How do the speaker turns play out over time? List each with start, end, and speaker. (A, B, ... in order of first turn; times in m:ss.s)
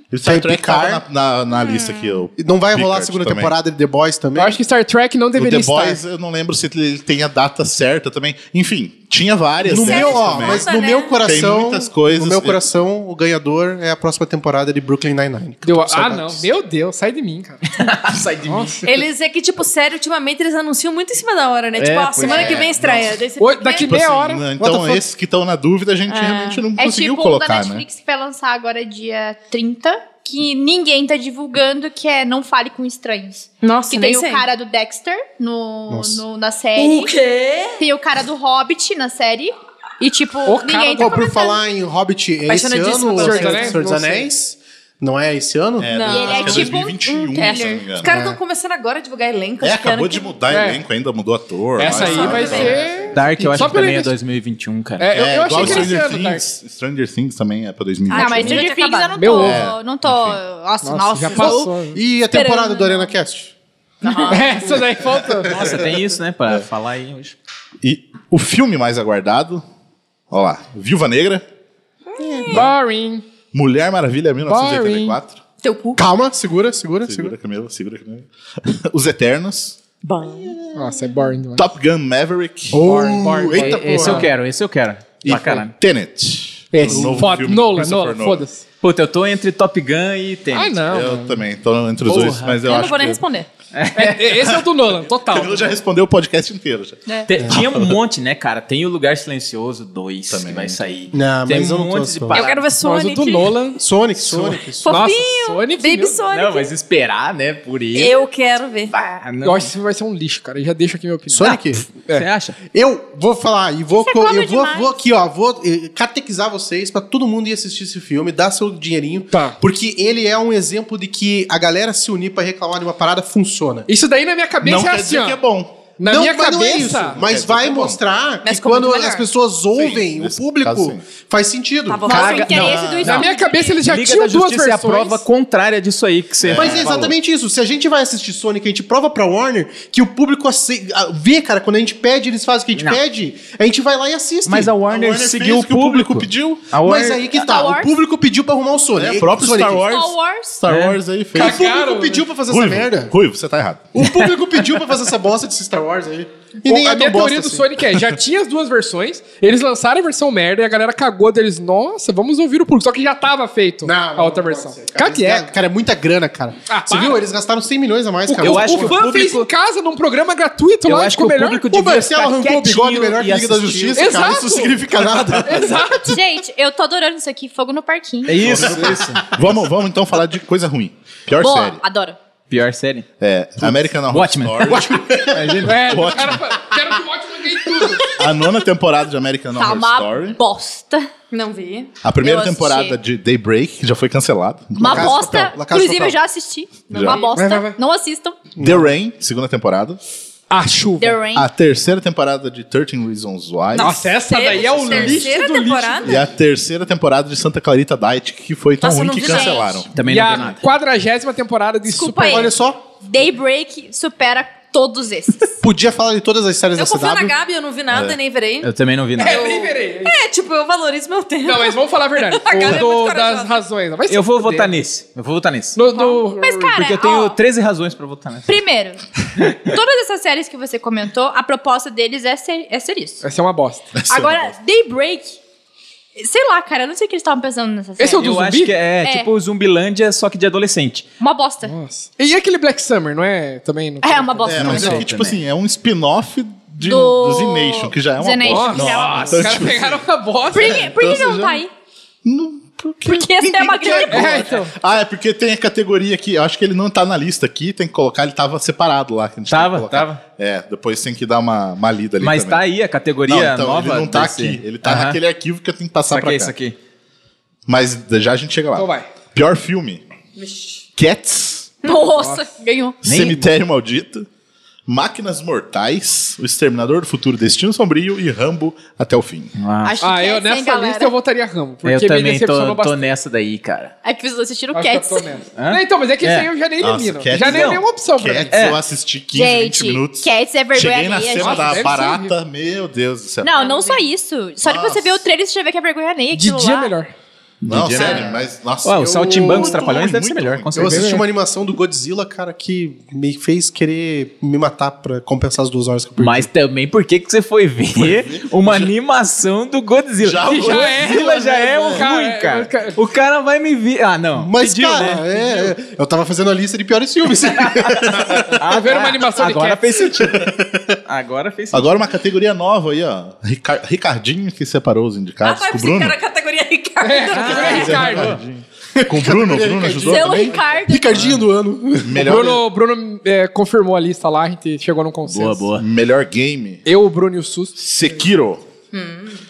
0:00.1-0:03.5 A
0:00.2-0:01.0 B
0:01.6-0:02.1 C
0:02.4-0:04.6 B
0:04.4-0:06.0 D
0:05.3-0:10.7 A
0:09.6-0:16.5 B
0:09.7-0:11.3 C
0:11.2-0:12.6 A
0:15.6-0:17.7 D
0:17.8-0:18.8 E
0:18.4-0:18.8 D
0:18.8-0:23.9 C
0:21.8-0:23.0 E
0:22.3-0:23.1 A
0:23.4-0:24.4 D
0:23.9-0:27.8 A
0:24.6-0:25.0 B
0:26.1-0:26.6 C
0:26.8-0:37.1 F
0:33.6-0:34.4 C
0:35.9-0:36.2 B
0:36.8-0:37.8 C
0:37.8-0:41.6 F
0:40.4-0:41.2 D
0:41.0-0:46.1 B
0:42.5-0:43.8 C
0:43.2-0:44.3 D
0:45.8-0:48.1 A
0:45.9-0:46.8 C
0:46.0-0:47.8 F
0:47.3-0:50.3 C
0:48.0-0:48.4 B
0:49.6-0:52.8 A
0:50.5-0:50.8 D
0:51.8-0:54.1 D
0:51.8-0:52.7 C
0:52.3-0:53.5 B
0:53.1-0:55.8 E
0:55.0-0:56.4 D
0:55.1-0:58.7 A
0:58.1-1:01.7 F
0:58.1-0:59.3 C
0:59.1-0:59.6 D
0:59.3-1:00.4 A
1:00.8-1:02.0 D
1:01.9-1:03.5 B
1:02.3-1:03.1 F
1:04.0-1:04.5 C
1:04.0-1:04.6 F
1:04.0-1:04.8 B
1:04.3-1:05.8 D
1:05.4-1:07.3 E
1:07.8-1:09.6 A
1:10.3-1:11.4 A
1:12.2-1:12.6 C
1:12.5-1:13.2 D
1:13.5-1:15.4 A
1:14.4-1:15.2 D
1:15.6-1:16.0 C
1:16.0-1:17.4 B
1:17.1-1:19.8 A
1:20.0-1:20.6 C
1:20.7-1:21.6 D
1:21.5-1:22.9 A
1:22.7-1:24.3 B
1:22.8-1:24.3 D
1:23.6-1:25.7 E
1:25.2-1:28.4 A
1:26.7-1:28.6 D
1:26.8-1:27.3 B
1:28.8-1:30.8 E
1:30.5-1:31.4 D
1:30.9-1:33.2 A
1:32.1-1:32.6 E
1:32.6-1:33.5 C
1:33.7-1:34.4 E
1:34.0-1:35.7 D
1:35.2-1:38.0 A
1:37.3-1:42.6 E
1:40.3-1:40.8 A
1:41.1-1:42.5 B
1:42.3-1:43.6 C
1:42.8-1:43.8 D
1:43.8-1:45.0 B
1:44.7-1:46.7 C
1:44.8-1:46.2 D
1:46.3-1:48.2 E
1:47.9-1:48.9 C
1:48.9-1:49.7 E
1:49.4-1:51.6 D
1:51.3-1:51.8 B
1:51.4-1:52.6 E
1:52.7-2:03.9 B
1:54.0-1:54.9 F
1:59.3-1:59.6 D
2:03.9-2:05.4 D
2:04.6-2:05.8 A
2:06.0-2:07.2 D
2:06.0-2:12.6 B
2:07.1-2:08.0 A
2:08.4-2:09.3 C
2:09.7-2:11.0 A
2:11.9-2:13.3 C
2:12.0-2:13.8 F
2:12.2-2:13.3 A
2:12.7-2:15.2 D
2:13.8-2:17.1 E
2:16.4-2:17.1 A
2:16.5-2:24.9 B
2:24.4-2:27.3 E
2:24.9-2:26.7 A
2:26.8-2:29.9 B
2:27.3-2:27.9 F
2:29.0-2:31.6 A
2:29.8-2:30.6 F
2:30.7-2:31.0 E
2:31.3-2:32.2 D
2:31.3-2:33.1 B
2:32.5-2:33.9 A
2:33.9-2:37.7 B
2:36.6-2:45.5 D
2:43.8-2:49.0 B
2:46.7-2:47.2 D
2:48.3-2:51.6 D
2:48.4-2:49.5 E
2:50.8-2:54.2 E
2:51.7-2:55.9 B
2:54.0-2:56.2 D
2:56.0-2:58.4 F
2:58.2-2:59.2 E
2:58.4-3:01.8 A
2:58.5-2:58.9 B
3:01.4-3:02.2 F
3:02.5-3:03.1 E
3:03.2-3:06.8 A
3:03.6-3:06.3 E
3:05.6-3:08.1 D
3:08.0-3:10.4 A
3:09.5-3:11.1 F
3:11.3-3:12.9 C
3:12.0-3:15.4 A
3:12.3-3:12.9 F
3:14.7-3:18.5 F
3:14.8-3:16.2 B
3:16.9-3:17.3 A
3:16.9-3:17.4 C
3:17.3-3:17.8 D
3:18.6-3:18.9 B
3:18.6-3:20.0 A
3:20.5-3:21.2 D
3:21.0-3:21.5 F
3:21.3-3:24.2 A
3:23.7-3:26.3 C
3:23.7-3:26.2 D
3:24.9-3:25.2 A
3:26.0-3:29.9 A
3:28.8-3:29.8 C
3:29.1-3:29.7 F
3:29.9-3:30.6 E
3:30.0-3:32.5 D
3:31.9-3:35.6 F
3:32.2-3:32.8 B
3:35.6-3:37.3 B
3:36.7-3:38.7 C
3:37.9-3:38.2 A
3:38.6-3:39.5 E
3:39.2-3:40.2 D
3:39.2-3:43.6 C
3:41.4-3:44.7 D
3:44.1-3:45.8 E
3:45.7-3:46.8 D
3:45.9-3:47.4 F
3:46.7-3:48.6 E
3:48.5-3:53.2 F
3:49.4-3:49.7 E
3:53.2-3:53.9 D
3:54.0-3:54.5 A
3:54.1-3:55.4 F
3:56.2-3:58.2 F
3:58.0-3:58.7 D
3:58.2-4:01.0 E
3:59.0-3:59.3 F
4:01.2-4:01.7 F
4:01.6-4:05.0 D
4:04.0-4:05.1 F
4:04.5-4:10.0 A
4:04.7-4:05.4 E
4:06.8-4:09.5 F
4:08.4-4:10.8 D
4:10.5-4:11.7 F
4:10.5-4:11.6 A
4:12.2-4:22.6 A
4:13.0-4:14.5 F
4:14.0-4:14.7 D
4:19.5-4:20.2 E
4:22.2-4:25.2 E
4:23.3-4:26.5 A
4:26.1-4:26.8 E
4:27.7-4:30.0 A
4:28.7-4:29.1 D
4:30.4-4:30.8 C
4:31.0-4:31.7 A
4:31.8-4:33.0 F
4:31.9-4:32.4 D
4:33.0-4:34.2 A
4:33.0-4:33.4 E
4:34.9-4:39.6 A
4:39.6-4:39.9 E
4:39.8-4:41.1 F
4:40.0-4:43.0 D
4:41.8-4:43.9 E
4:44.0-4:45.2 F
4:44.7-4:48.6 D
4:45.6-4:46.5 E
4:46.8-4:53.5 A
4:47.3-4:47.8 E
4:48.5-4:48.8 E
4:49.3-4:52.0 F
4:51.4-4:52.3 D
4:53.4-4:56.9 F
4:53.6-4:54.0 C
4:54.6-4:55.2 A
4:56.3-4:57.1 D
4:57.6-5:01.2 E
4:57.6-5:01.0 A
4:58.0-4:58.2 F
4:59.0-5:00.0 B
5:00.7-5:06.5 B
5:00.9-5:01.2 D
5:06.2-5:15.6 E
5:07.9-5:08.9 A
5:10.2-5:12.1 A
5:10.4-5:13.0 D
5:14.4-5:18.6 B
5:17.6-5:22.0 E
5:18.5-5:19.8 D
5:21.7-5:26.2 A
5:25.4-5:28.2 C
5:27.0-5:28.4 D
5:27.3-5:28.4 E
5:27.5-5:30.5 A
5:29.0-5:32.6 B
5:30.0-5:31.3 F
5:31.1-5:31.4 E
5:32.0-5:32.6 A
5:32.2-5:35.7 D
5:35.3-5:35.8 E
5:35.7-5:36.8 A
5:36.8-5:37.7 D
5:37.8-5:38.6 A